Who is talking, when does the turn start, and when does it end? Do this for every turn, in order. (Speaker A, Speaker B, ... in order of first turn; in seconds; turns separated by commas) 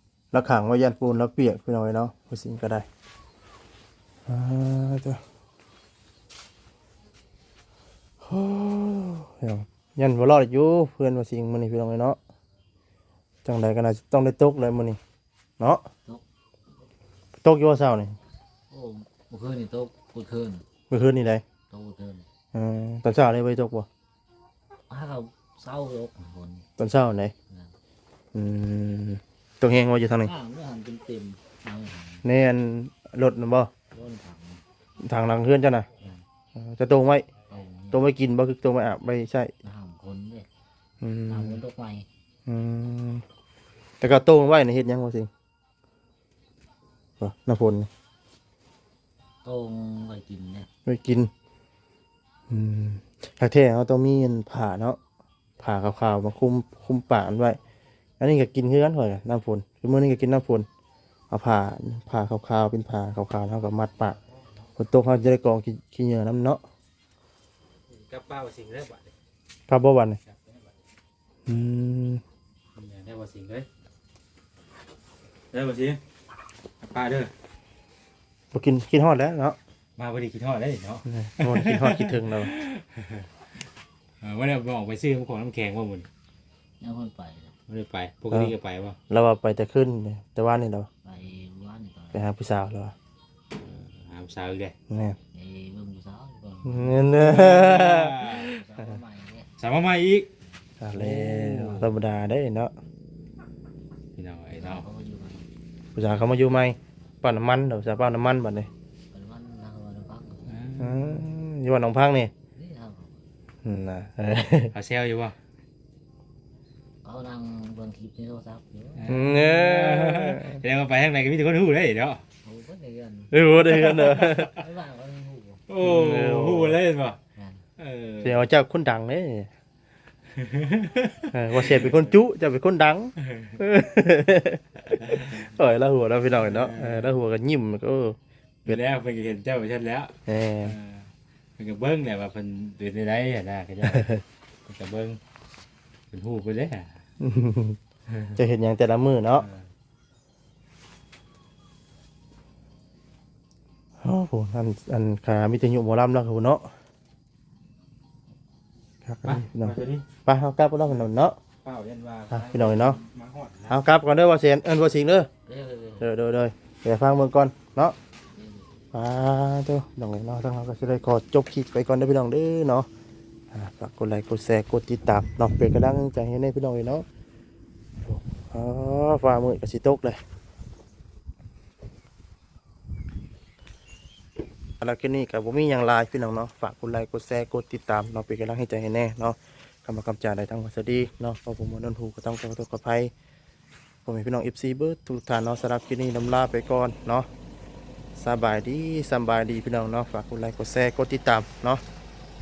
Speaker A: 0.3-2.9, Speaker A: 4.3-5.2, Speaker A: 8.2-12.2, Speaker A: 13.4-15.0, Speaker A: 15.6-15.8, Speaker A: 17.4-18.2, Speaker B: 18.7-20.6, Speaker A: 20.9-21.4, Speaker B: 21.7-22.2, Speaker A: 22.5-23.9, Speaker B: 24.9-26.7, Speaker A: 26.8-27.3, Speaker B: 27.5-27.7, Speaker A: 28.3-30.3, Speaker B: 30.2-32.3, Speaker A: 32.2-33.7, Speaker B: 33.9-34.6, Speaker A: 35.0-35.9, Speaker A: 36.5-37.3, Speaker B: 37.5-38.1, Speaker A: 37.9-39.5, Speaker B: 39.6-40.5, Speaker A: 41.0-41.6, Speaker B: 41.3-42.1, Speaker A: 42.5-43.2, Speaker A: 44.0-45.3, Speaker A: 47.2-47.9, Speaker B: 49.4-50.7, Speaker A: 50.9-51.3, Speaker A: 52.5-55.0, Speaker A: 55.6-57.6, Speaker A: 58.2-60.7, Speaker A: 61.3-64.2, Speaker A: 64.8-66.6, Speaker C: 67.9-69.1, Speaker A: 69.7-70.2, Speaker C: 70.3-70.7, Speaker A: 71.5-72.2, Speaker C: 72.8-73.7, Speaker C: 75.5-76.0, Speaker C: 76.8-77.3, Speaker A: 78.5-79.6, Speaker C: 80.0-83.3, Speaker A: 81.1-82.6, Speaker C: 84.2-86.1, Speaker B: 86.8-87.5, Speaker C: 87.7-89.0, Speaker A: 89.1-90.9, Speaker B: 91.0-92.3, Speaker A: 92.1-92.9, Speaker C: 93.5-94.7, Speaker A: 94.9-95.2, Speaker B: 95.3-97.1, Speaker A: 96.6-98.4, Speaker C: 97.1-98.5, Speaker B: 98.4-99.5, Speaker C: 99.6-100.3, Speaker A: 100.8-102.7, Speaker C: 100.9-102.0, Speaker C: 104.2-104.8, Speaker B: 104.6-105.5, Speaker A: 105.9-108.7, Speaker B: 109.1-110.6, Speaker C: 110.5-111.2, Speaker A: 110.8-112.3, Speaker B: 112.5-113.2, Speaker A: 113.6-114.7, Speaker C: 114.7-115.3, Speaker B: 117.0-119.1, Speaker C: 119.0-122.2, Speaker A: 119.0-120.6, Speaker B: 122.4-125.6, Speaker A: 123.3-124.6, Speaker C: 123.7-124.5, Speaker C: 125.7-127.2, Speaker A: 125.8-126.8, Speaker B: 127.3-127.6, Speaker C: 127.8-128.5, Speaker A: 128.2-129.5, Speaker C: 130.3-132.1, Speaker A: 131.3-138.8, Speaker C: 133.3-133.6, Speaker C: 135.0-135.5, Speaker C: 136.3-137.2, Speaker C: 138.6-145.2, Speaker A: 140.3-140.8, Speaker C: 146.1-147.0, Speaker A: 147.2-147.8, Speaker C: 148.1-148.4, Speaker A: 148.3-149.4, Speaker C: 149.4-149.7, Speaker A: 154.0-156.7, Speaker A: 159.1-161.4, Speaker C: 159.2-160.1, Speaker C: 161.6-163.8, Speaker A: 162.3-163.0, Speaker A: 163.7-165.3, Speaker B: 165.4-166.1, Speaker A: 166.0-167.9, Speaker B: 168.3-168.8, Speaker A: 168.9-172.9, Speaker A: 173.5-177.0, Speaker A: 178.0-180.2, Speaker A: 184.8-193.1, Speaker A: 194.1-197.3, Speaker A: 198.2-201.8